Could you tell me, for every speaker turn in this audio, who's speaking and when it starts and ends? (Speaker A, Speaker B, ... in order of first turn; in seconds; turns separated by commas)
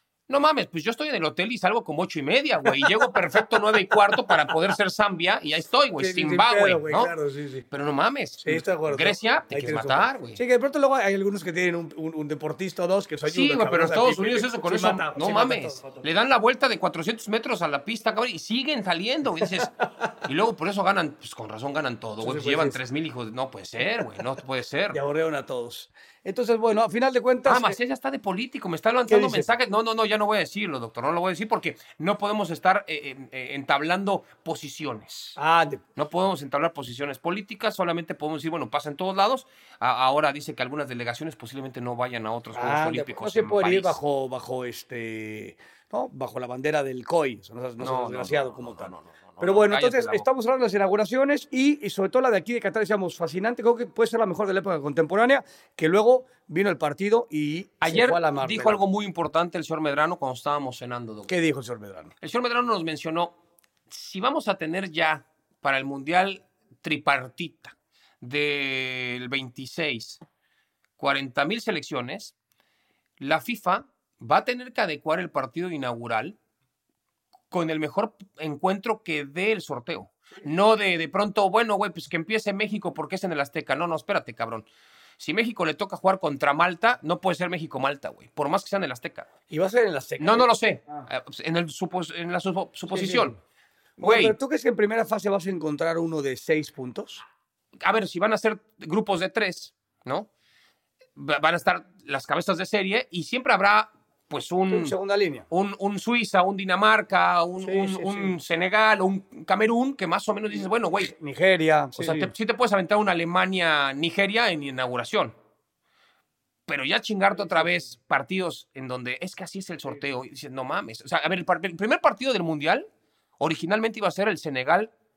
Speaker A: 0.3-7.1, Speaker B: 6.0-7.7, Speaker A: 7.7-10.4, Speaker B: 8.4-16.1, Speaker A: 13.3-25.0, Speaker B: 19.4-20.1, Speaker B: 22.2-22.8, Speaker B: 24.9-27.8, Speaker A: 27.4-35.4, Speaker B: 29.1-29.5, Speaker B: 35.4-35.8, Speaker A: 36.0-44.0, Speaker B: 42.5-58.8, Speaker A: 47.8-50.3, Speaker A: 57.8-61.3, Speaker B: 61.3-62.1, Speaker A: 62.2-63.3, Speaker A: 63.9-70.2, Speaker A: 71.0-72.3, Speaker A: 73.2-76.4, Speaker A: 77.5-84.7, Speaker A: 85.2-89.3, Speaker B: 89.5-90.5, Speaker A: 90.2-93.4, Speaker B: 92.9-93.4, Speaker B: 94.0-97.2, Speaker A: 94.0-94.3, Speaker A: 97.8-100.3, Speaker A: 101.2-104.9, Speaker B: 104.7-105.5, Speaker A: 105.5-111.1, Speaker B: 107.6-108.3, Speaker B: 111.0-112.3, Speaker A: 112.0-115.3, Speaker A: 116.7-122.9, Speaker B: 117.4-117.7, Speaker A: 123.4-124.9